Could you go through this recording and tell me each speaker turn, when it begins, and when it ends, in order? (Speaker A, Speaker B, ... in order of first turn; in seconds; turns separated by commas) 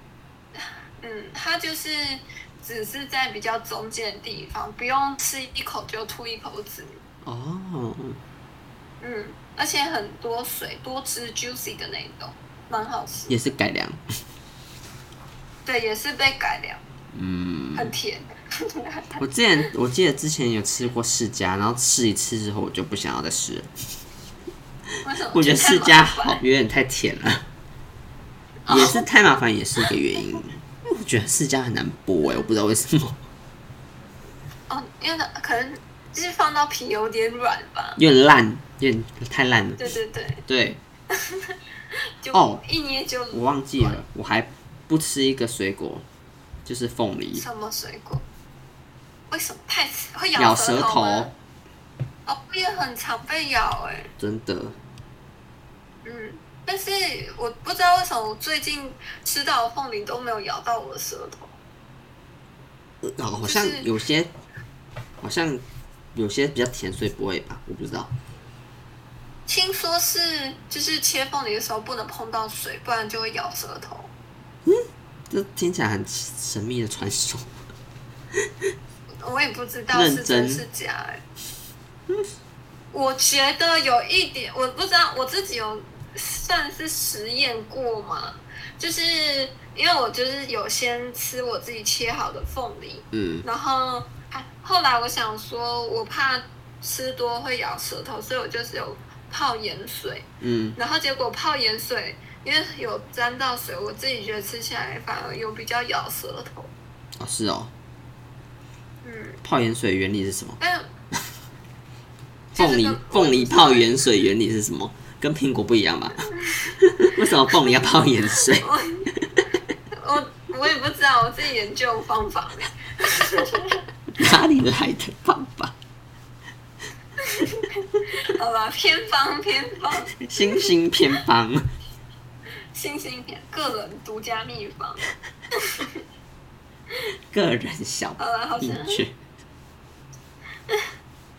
Speaker A: 0.5-7.0, Speaker B: 7.2-8.2, Speaker A: 9.0-13.3, Speaker B: 13.3-14.0, Speaker A: 15.6-16.8, Speaker B: 17.1-17.9, Speaker A: 17.7-19.2, Speaker B: 19.2-23.7, Speaker A: 25.0-26.4, Speaker B: 25.3-27.4, Speaker A: 28.6-29.0, Speaker B: 28.7-33.2, Speaker A: 32.2-32.5, Speaker A: 34.7-38.0, Speaker B: 38.0-39.9, Speaker A: 39.8-40.5, Speaker B: 40.5-40.8, Speaker A: 41.1-41.6, Speaker A: 42.2-44.0, Speaker B: 42.3-42.6, Speaker B: 43.3-46.0, Speaker B: 46.6-47.4, Speaker A: 47.3-48.2, Speaker A: 49.3-51.3, Speaker B: 50.4-51.3, Speaker A: 52.2-54.1, Speaker B: 54.2-54.8, Speaker A: 56.0-61.6, Speaker B: 63.0-64.3, Speaker A: 63.4-63.9, Speaker B: 65.2-65.6, Speaker B: 66.1-68.1, Speaker A: 69.5-74.1, Speaker B: 74.7-77.5, Speaker A: 79.2-81.2, Speaker B: 79.9-80.6, Speaker A: 82.9-106.7, Speaker B: 93.1-93.4, Speaker B: 100.4-100.8, Speaker B: 107.2-107.7, Speaker A: 109.0-109.4, Speaker B: 109.4-110.6, Speaker A: 110.6-110.9, Speaker B: 112.5-119.5, Speaker A: 112.5-113.9, Speaker A: 118.6-119.1, Speaker A: 119.9-123.8, Speaker B: 124.1-125.8, Speaker A: 127.2-130.7, Speaker B: 130.2-131.7, Speaker A: 132.7-136.0, Speaker B: 137.3-139.2, Speaker A: 138.2-139.0, Speaker A: 140.7-140.9